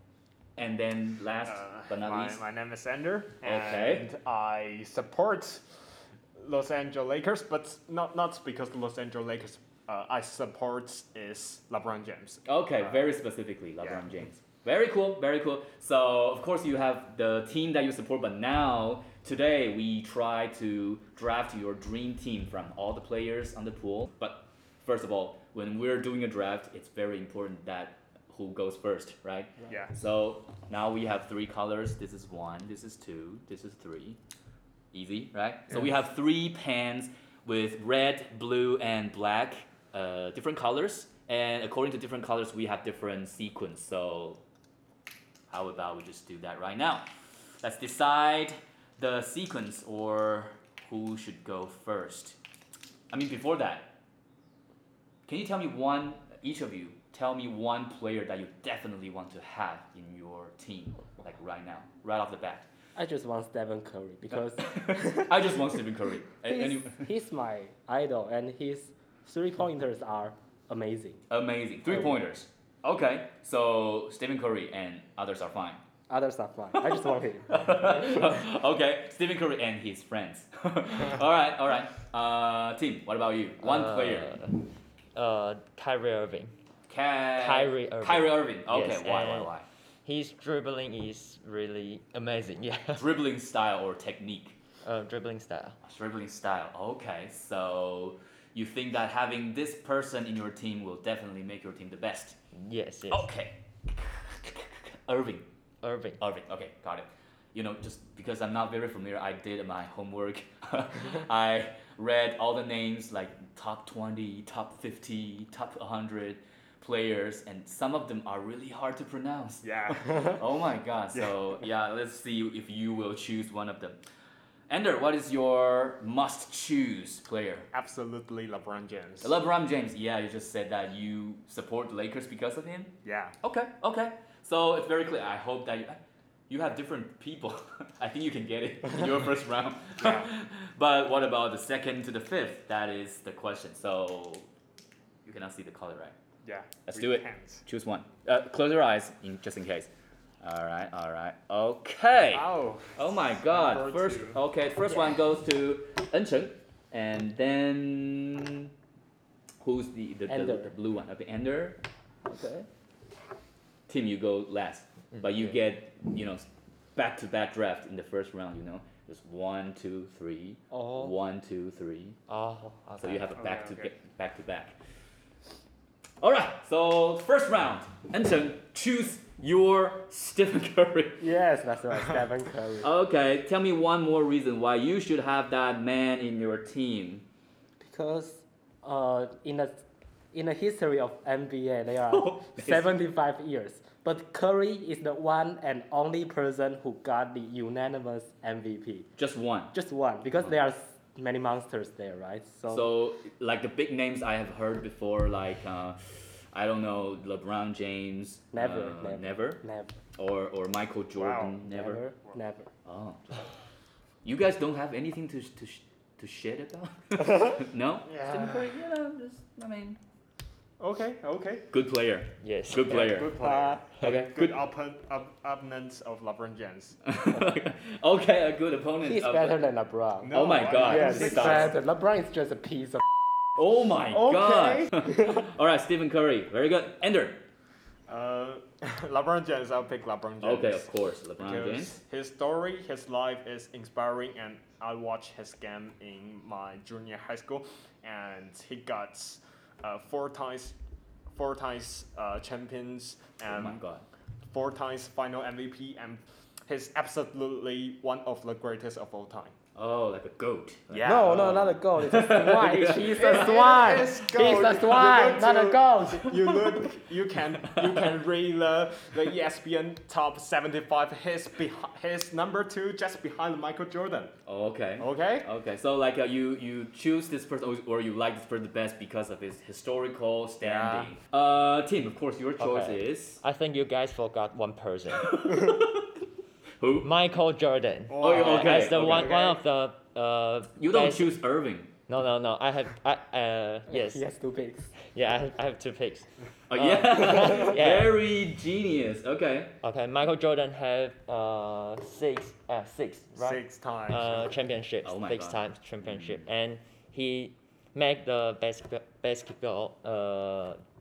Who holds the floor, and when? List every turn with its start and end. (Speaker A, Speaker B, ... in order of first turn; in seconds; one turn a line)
Speaker A: 0.6-2.5
Speaker B: 1.4-5.7
Speaker A: 3.4-4.1
Speaker B: 6.4-13.2
Speaker A: 12.5-34.2
Speaker B: 13.8-14.1
Speaker A: 34.9-44.4
Speaker A: 45.5-52.4
Speaker A: 53.1-54.0
Speaker A: 55.3-62.7
Speaker C: 63.0-65.5
Speaker A: 64.6-67.1
Speaker C: 66.3-71.2
Speaker A: 71.3-75.8
Speaker C: 76.1-77.9
Speaker A: 76.8-84.4
Speaker D: 83.6-86.5
Speaker A: 86.9-89.7
Speaker D: 87.4-93.1
Speaker A: 93.0-94.6
Speaker D: 94.8-95.8
Speaker A: 95.8-102.4
Speaker D: 102.5-103.3
Speaker A: 103.1-105.5
Speaker D: 105.8-106.2
Speaker A: 106.2-124.0
Speaker B: 119.6-120.3
Speaker A: 124.7-127.7
Speaker B: 127.7-129.3
Speaker A: 129.2-144.5
Speaker B: 133.1-133.3
Speaker B: 140.0-140.3
Speaker A: 145.2-146.2
Speaker B: 146.4-147.6
Speaker A: 146.8-149.9
Speaker A: 150.4-158.7
Speaker B: 152.3-154.4
Speaker A: 159.6-162.7
Speaker C: 160.3-160.7
Speaker A: 163.9-172.2
Speaker D: 165.2-165.5
Speaker C: 170.7-171.1
Speaker D: 172.3-173.3
Speaker A: 173.0-174.8
Speaker B: 173.4-173.9
Speaker A: 176.2-181.2
Speaker C: 181.2-182.9
Speaker A: 182.8-187.2
Speaker C: 187.8-199.1
Speaker A: 192.1-193.0
Speaker A: 199.2-199.7
Speaker C: 199.7-202.9
Speaker A: 202.7-209.6
Speaker C: 208.5-209.9
Speaker A: 210.2-212.1
Speaker B: 211.2-211.6
Speaker C: 211.6-212.7
Speaker A: 212.8-213.5
Speaker A: 214.2-220.0
Speaker B: 218.0-218.8
Speaker B: 220.8-221.7
Speaker A: 221.7-223.3
Speaker D: 222.4-223.1
Speaker B: 222.9-227.0
Speaker C: 223.1-223.8
Speaker A: 224.0-224.6
Speaker A: 227.1-229.6
Speaker C: 229.1-233.0
Speaker B: 230.2-231.7
Speaker A: 230.3-231.8
Speaker A: 233.6-237.4
Speaker B: 234.1-234.9
Speaker C: 235.0-235.4
Speaker B: 238.1-250.8
Speaker A: 240.4-242.0
Speaker B: 251.3-253.8
Speaker A: 253.5-254.1
Speaker B: 254.5-259.5
Speaker A: 259.8-263.5
Speaker B: 260.9-261.5
Speaker C: 261.0-266.4
Speaker B: 262.6-274.3
Speaker A: 266.3-266.8
Speaker A: 267.8-268.1
Speaker A: 274.4-283.4
Speaker B: 275.0-275.5
Speaker B: 280.6-281.1
Speaker D: 282.6-285.6
Speaker A: 285.1-286.1
Speaker A: 286.8-287.1
Speaker D: 287.0-291.4
Speaker B: 288.1-289.6
Speaker A: 288.2-289.4
Speaker A: 290.8-292.0
Speaker D: 292.1-294.2
Speaker C: 293.9-294.9
Speaker D: 295.1-298.1
Speaker A: 296.7-299.8
Speaker D: 299.8-310.8
Speaker B: 303.3-304.6
Speaker A: 305.0-306.5